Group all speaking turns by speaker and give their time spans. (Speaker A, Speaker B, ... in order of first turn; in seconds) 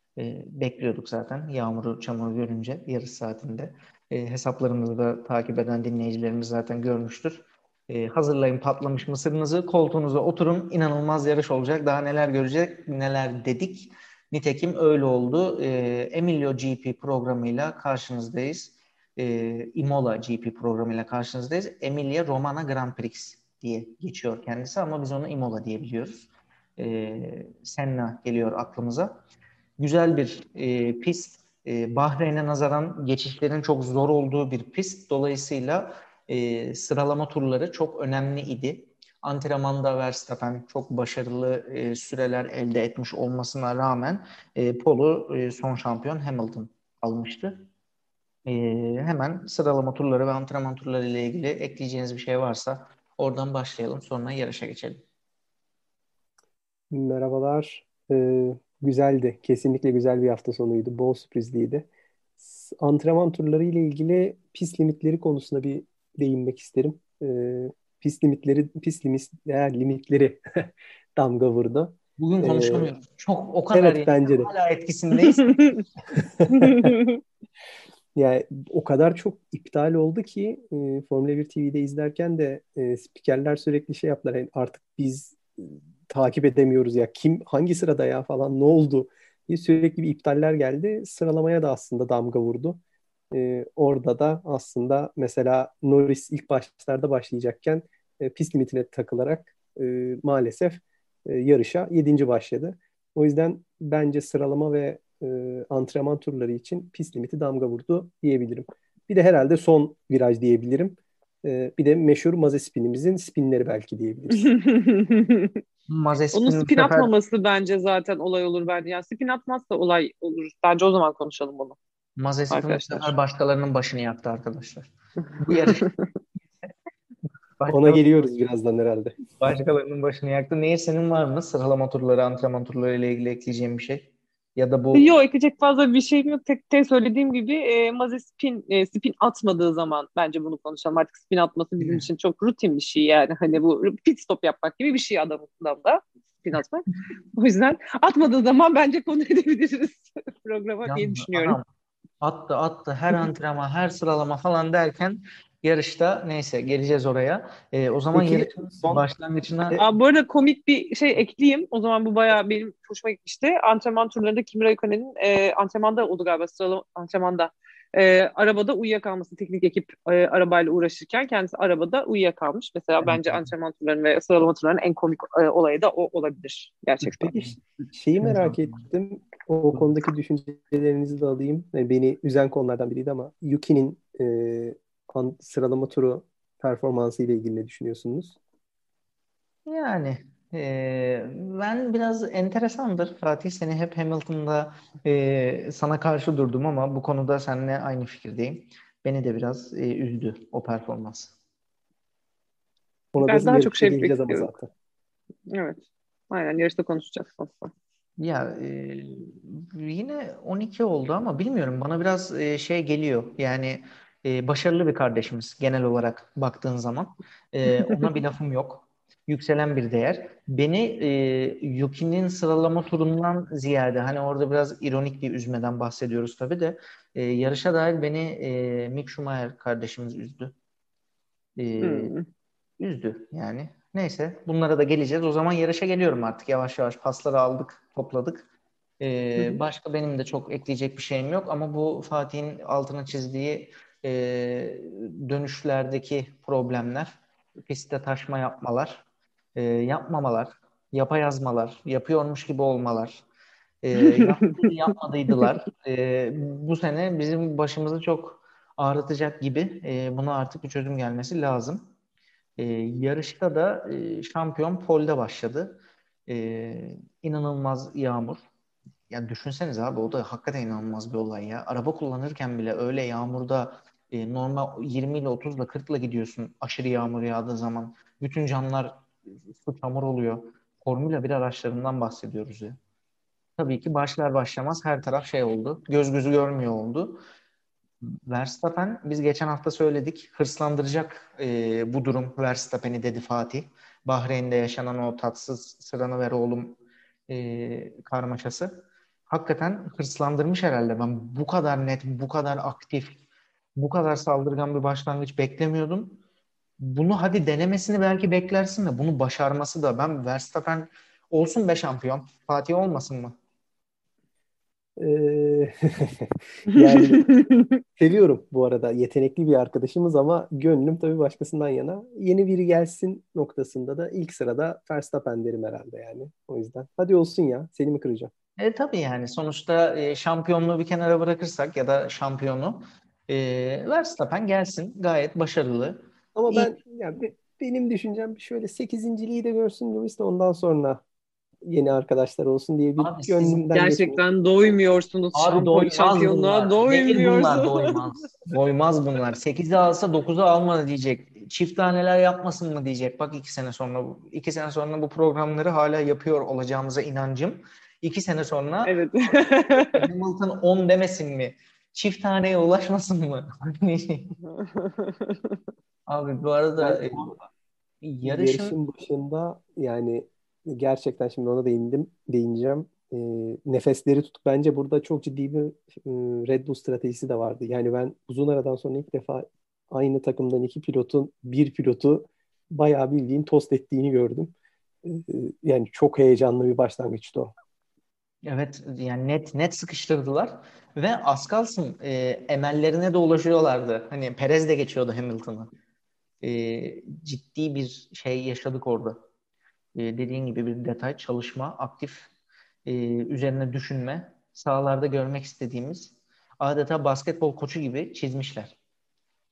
Speaker A: 0.2-29.1, 29.8-47.6, 48.5-55.0, 72.2-75.5, 115.9-117.1, 122.2-125.8, 127.6-128.3, 129.4-135.1, 141.8-142.1, 150.8-151.6, 152.2-159.8, 173.0-173.5, 177.5-178.9, 189.7-201.3, 208.2-230.5, 231.6-232.1, 232.8-238.4, 239.0-247.1, 247.7-249.0, 249.6-253.2, 253.8-261.8, 262.6-265.8, 266.3-268.4, 269.1-278.9, 279.4-282.8, 283.6-287.2, 288.3-298.7, 299.3-303.2, 303.8-306.2, 306.8-313.4, 328.6-336.7, 343.0-343.7, 345.3-364.3, 366.1-367.4, 368.0-368.8, 388.4-395.7, 396.4-399.2, 399.9-402.3, 402.9-408.8
Speaker B: 56.9-61.9, 62.4-72.9, 73.7-74.5, 76.2-76.9, 78.2-92.8, 93.3-114.5, 127.7-129.1, 158.1-159.0, 177.0-188.4, 203.1-204.7, 315.0-317.3, 318.0-328.3, 336.3-341.0, 341.6-344.2, 366.8-367.3, 368.2-384.5, 385.0-387.5
Speaker C: 75.4-75.8, 76.5-77.2, 114.3-115.6, 116.3-121.8, 122.5-123.1, 125.5-126.1, 134.9-151.6, 159.7-177.3, 203.2-204.5, 205.5-207.7, 231.8-232.2, 254.2-254.5, 316.7-317.7, 343.7-348.0, 358.8-360.0, 364.6-365.6